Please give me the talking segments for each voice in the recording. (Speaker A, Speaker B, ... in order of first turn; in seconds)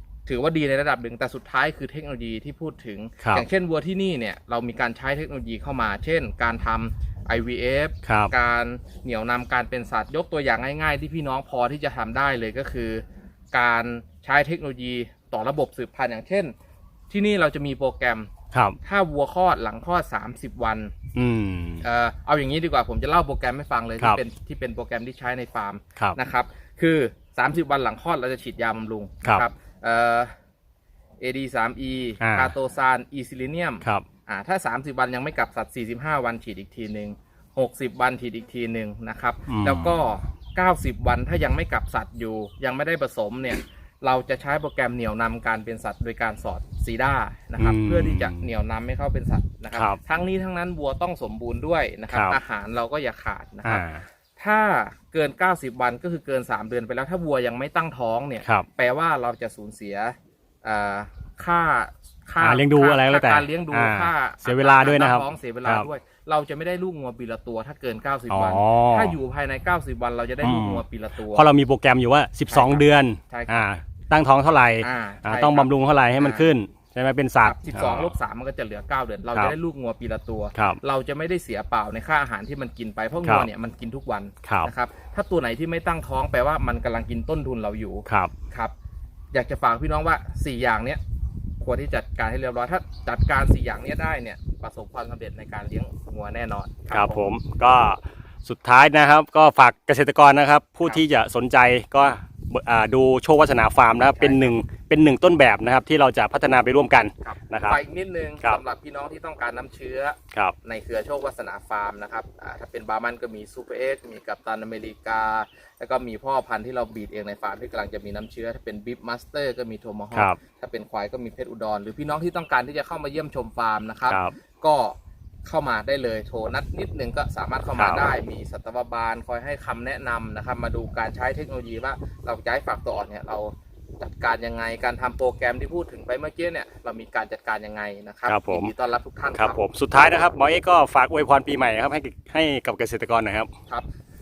Speaker A: 0.2-16.5, 17.1-18.3, 18.8-20.9, 21.8-30.3, 31.2-71.5, 72.5-73.7, 74.8-76.5, 77.4-88.7, 89.3-91.0, 91.6-97.3, 104.2-104.5, 107.2-139.6
Speaker B: 3.2-3.5, 8.1-8.3, 18.5-18.8, 21.1-21.8, 32.2-32.5, 39.5-40.0, 47.6-48.5, 49.7-50.0, 52.1-52.4, 53.6-54.0, 62.4-65.9, 68.3-69.2, 70.4-78.1, 80.5-80.8, 84.4-84.7, 88.0-88.3, 96.9-107.8, 124.1-124.3, 127.8-128.0, 138.2-138.7, 139.3-143.5